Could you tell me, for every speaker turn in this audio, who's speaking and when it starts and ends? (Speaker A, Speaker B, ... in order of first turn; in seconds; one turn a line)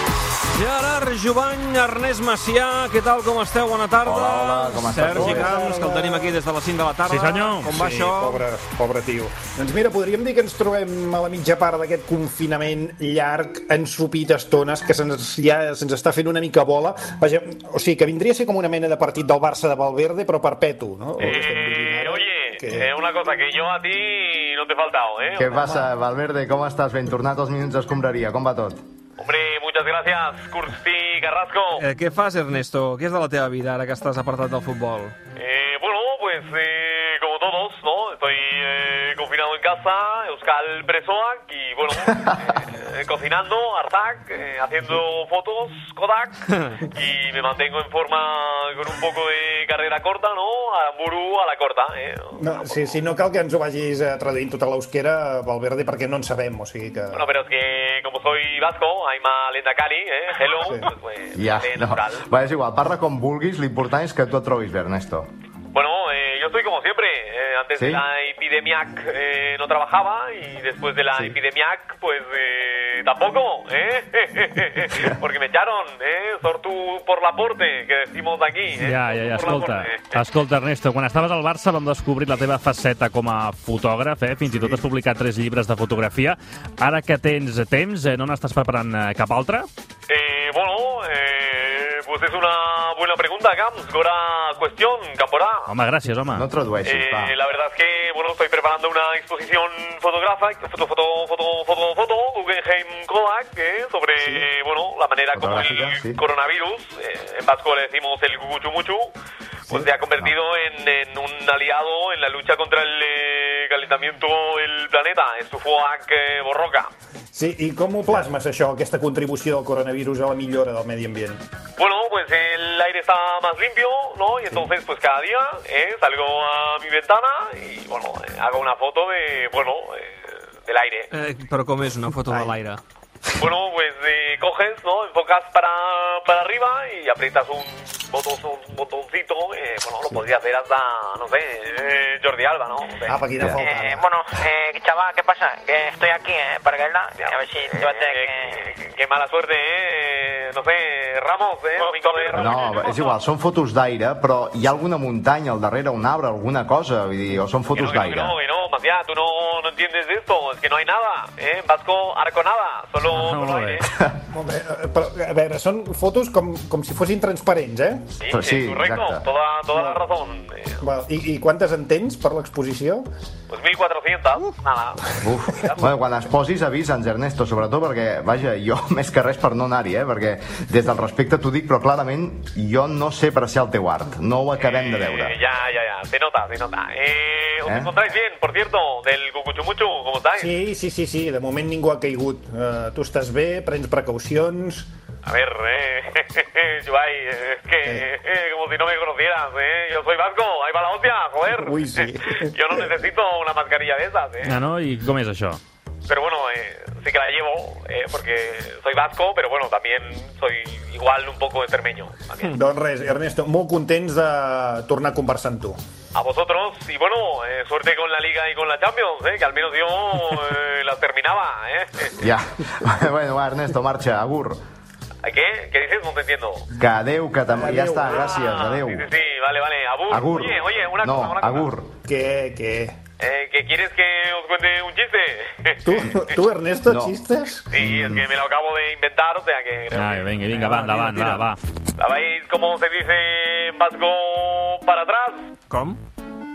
Speaker A: 0.5-8.4
Speaker B: 4.0-5.5
Speaker C: 5.0-6.3
Speaker D: 7.1-7.7
Speaker C: 7.7-22.9
Speaker E: 21.2-25.7
Speaker B: 25.4-28.8
Speaker E: 29.2-31.8
Speaker A: 31.8-35.2
Speaker E: 35.4-53.0
Speaker A: 46.5-46.8
Speaker C: 52.4-57.3
Speaker E: 57.1-62.3
Speaker C: 60.6-60.9
Speaker B: 61.3-65.3
Speaker E: 65.7-80.2
Speaker B: 67.8-68.0
Speaker D: 78.8-89.7
Speaker C: 84.5-84.8
Speaker E: 90.1-95.7
Speaker D: 95.7-96.5
Speaker B: 96.3-97.3
Speaker E: 96.8-109.1
Speaker B: 105.3-106.2
Speaker E: 109.7-116.9
Speaker C: 117.3-121.5
Speaker E: 121.8-131.1
Speaker A: 131.1-132.8
Speaker C: 132.3-132.6
Speaker E: 133.4-143.2
Speaker C: 143.1-144.1
Speaker F: 143.6-148.5
Speaker E: 147.2-153.1
Speaker B: 152.3-158.4
Speaker E: 157.7-163.9
Speaker D: 163.1-163.8
Speaker C: 164.3-168.1
Speaker E: 168.2-170.8
Speaker B: 168.3-169.3
Speaker C: 169.7-170.0
Speaker C: 170.8-173.1
Speaker E: 173.5-175.8
Speaker B: 175.2-185.4
Speaker E: 184.6-190.6
Speaker B: 187.7-187.9
Speaker C: 190.4-194.9
Speaker E: 195.2-204.6
Speaker C: 201.6-202.9
Speaker D: 204.4-205.6
Speaker E: 206.1-212.6
Speaker C: 212.5-215.8
Speaker E: 216.1-222.1
Speaker B: 222.2-224.6
Speaker E: 225.2-226.7
Speaker B: 226.8-229.1
Speaker C: 227.5-228.3
Speaker E: 228.1-231.7
Speaker B: 230.1-231.9
Speaker C: 232.1-233.0
Speaker E: 233.2-236.4
Speaker C: 235.8-237.7
Speaker B: 236.9-237.2
Speaker E: 237.7-240.4
Speaker B: 237.8-238.2
Speaker D: 239.9-241.6
Speaker C: 240.5-241.5
Speaker E: 242.0-245.5
Speaker A: 245.7-246.0